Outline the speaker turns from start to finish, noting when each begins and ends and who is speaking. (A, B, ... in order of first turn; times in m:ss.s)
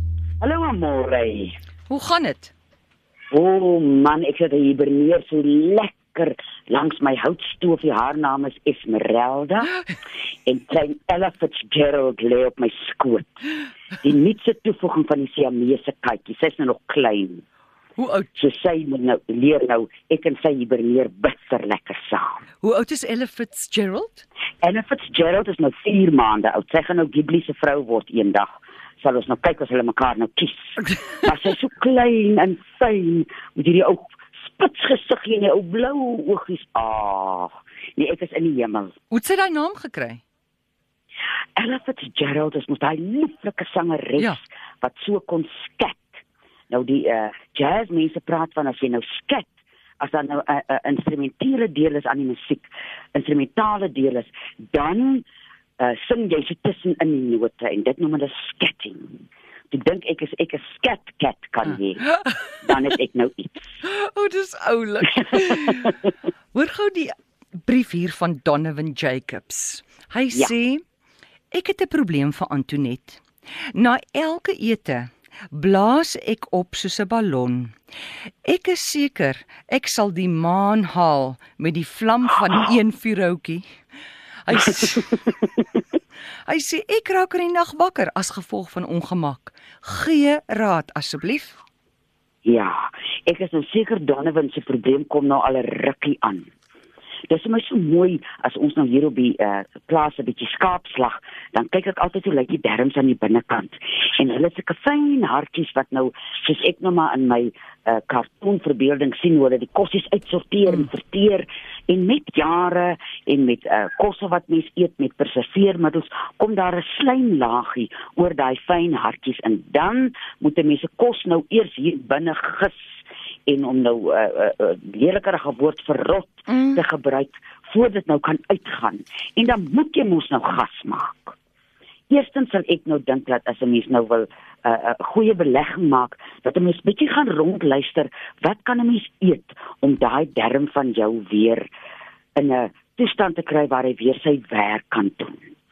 0:00.4-0:01.6 A
0:01.9-0:02.5 B
0:03.3-0:09.7 A
0:10.4-0:13.4 A
0:14.0-0:17.4 A
0:18.0-0:18.3 B
0:18.3-0:22.4 A
0:22.6-0:24.2 B
0:24.6-0:28.5 A
0:29.0-0:38.9 A
0:39.1-0:40.2 B
0:41.6-0:46.1 A
0:46.7-0:55.2 A
0:55.8-0:59.2 A
0:59.7-1:02.0 A
1:02.6-1:03.8 A
1:03.8-1:06.0 B
1:06.5-1:10.8 B
1:11.5-1:13.2 B
1:13.7-1:17.7 B
1:18.4-1:23.7 B
1:24.4-1:25.3 B
1:26.4-1:31.6 B
1:32.4-1:36.5 A
1:37.3-2:11.3 A
2:06.5-2:06.8 B
2:12.1-2:21.7 A
2:22.4-2:25.4 A